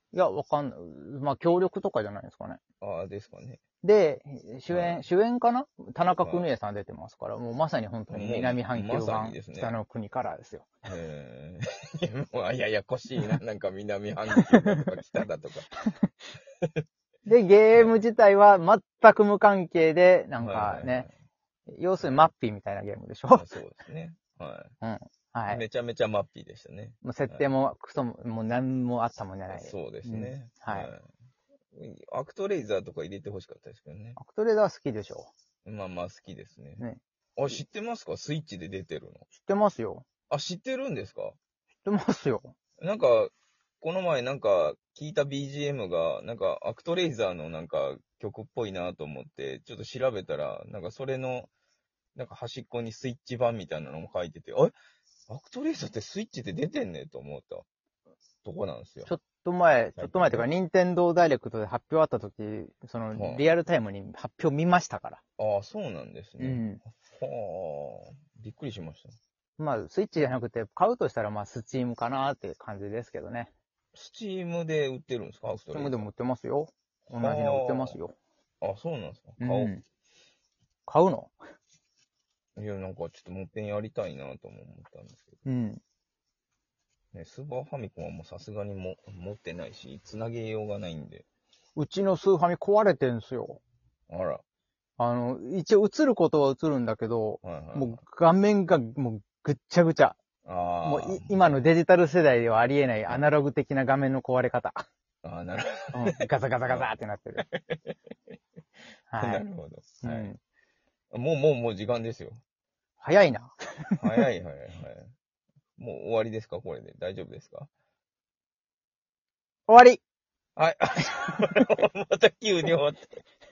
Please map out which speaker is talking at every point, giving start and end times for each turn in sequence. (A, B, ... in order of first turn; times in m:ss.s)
0:00.1-0:02.6 A
0:02.8-0:03.6 B
0:03.8-0:10.7 A
0:04.7-0:05.0 B
0:06.2-0:06.5 B
0:08.1-0:09.7 B
0:10.9-0:15.7 B
0:14.3-0:14.8 A
0:17.2-0:21.1 A
0:20.4-0:21.1 B
0:21.7-0:23.4 A
0:23.3-0:24.7 B
0:24.8-0:25.6 A
0:25.5-0:27.4 B
0:27.0-0:30.9 A
0:29.5-0:31.1 B
0:31.7-0:34.2 B
0:34.2-0:35.3 A
0:35.6-0:36.8 B
0:37.4-0:39.3 B
0:39.3-0:40.0 A
0:40.3-0:41.4 B
0:41.8-0:42.5 A
0:42.8-0:51.5 B
0:52.2-0:54.7 B
0:55.3-0:57.6 B
0:58.4-0:59.1 B
0:59.0-1:05.2 A
1:00.0-1:00.4 B
1:03.1-1:03.4 B
1:05.4-1:09.2 B
1:06.4-1:06.8 A
1:09.6-1:13.5 A
1:13.9-1:16.1 B
1:15.7-1:18.2 A
1:17.1-1:18.0 B
1:18.6-1:19.7 B
1:19.4-1:19.8 A
1:20.9-1:21.3 A
1:22.6-1:25.4 B
1:25.4-1:25.8 A
1:27.1-1:31.2 B
1:31.8-1:33.6 A
1:34.1-1:34.4 B
1:35.0-1:40.2 A
1:37.4-1:38.0 B
1:40.4-1:41.6 B
1:40.8-1:44.8 A
1:45.2-1:47.9 B
1:45.9-1:47.4 A
1:49.1-1:49.4 A
1:49.2-1:50.3 B
1:50.0-1:50.4 A
1:51.1-1:52.4 B
1:53.0-1:54.2 A
1:54.0-1:55.1 B
1:55.8-1:57.7 B
1:59.7-2:00.0 A
2:00.6-2:03.2 B
2:01.3-2:01.6 A